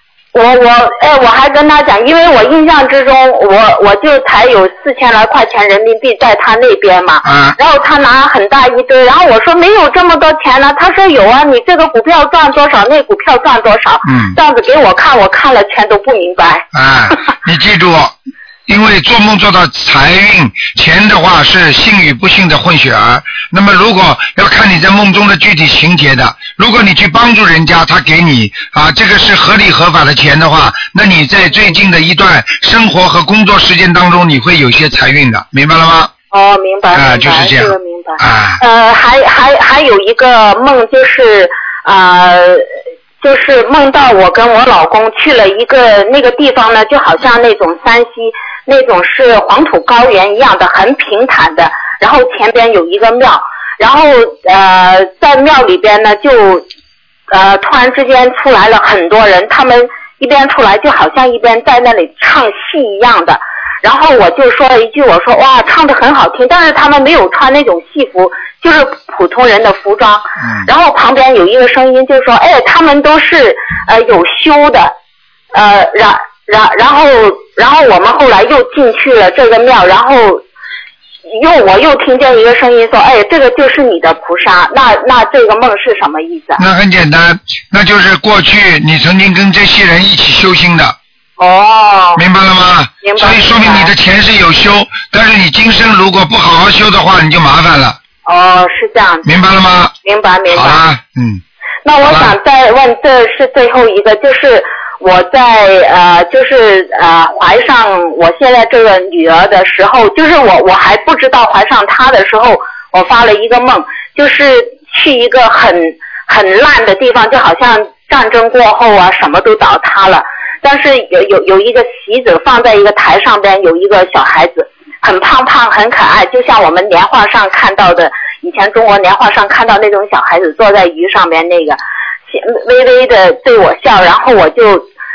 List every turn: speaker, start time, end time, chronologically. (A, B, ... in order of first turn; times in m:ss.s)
0:00.3-0:16.6 A
0:07.2-0:07.6 B
0:14.0-0:14.4 B
0:16.7-0:18.2 B
0:18.7-0:36.1 B
0:36.3-0:42.6 A
0:36.9-0:38.6 B
0:43.2-0:56.6 A
0:57.3-1:14.9 A
1:10.4-1:10.6 B
1:15.5-1:20.4 A
1:21.3-1:26.6 A
1:26.6-1:31.0 B
1:31.4-1:32.2 A
1:32.2-1:38.0 B
1:33.0-1:33.9 A
1:38.2-1:39.3 A
1:39.2-1:39.9 B
1:40.0-1:40.8 A
1:40.5-1:41.4 B
1:41.8-2:14.9 A
1:42.0-1:42.3 B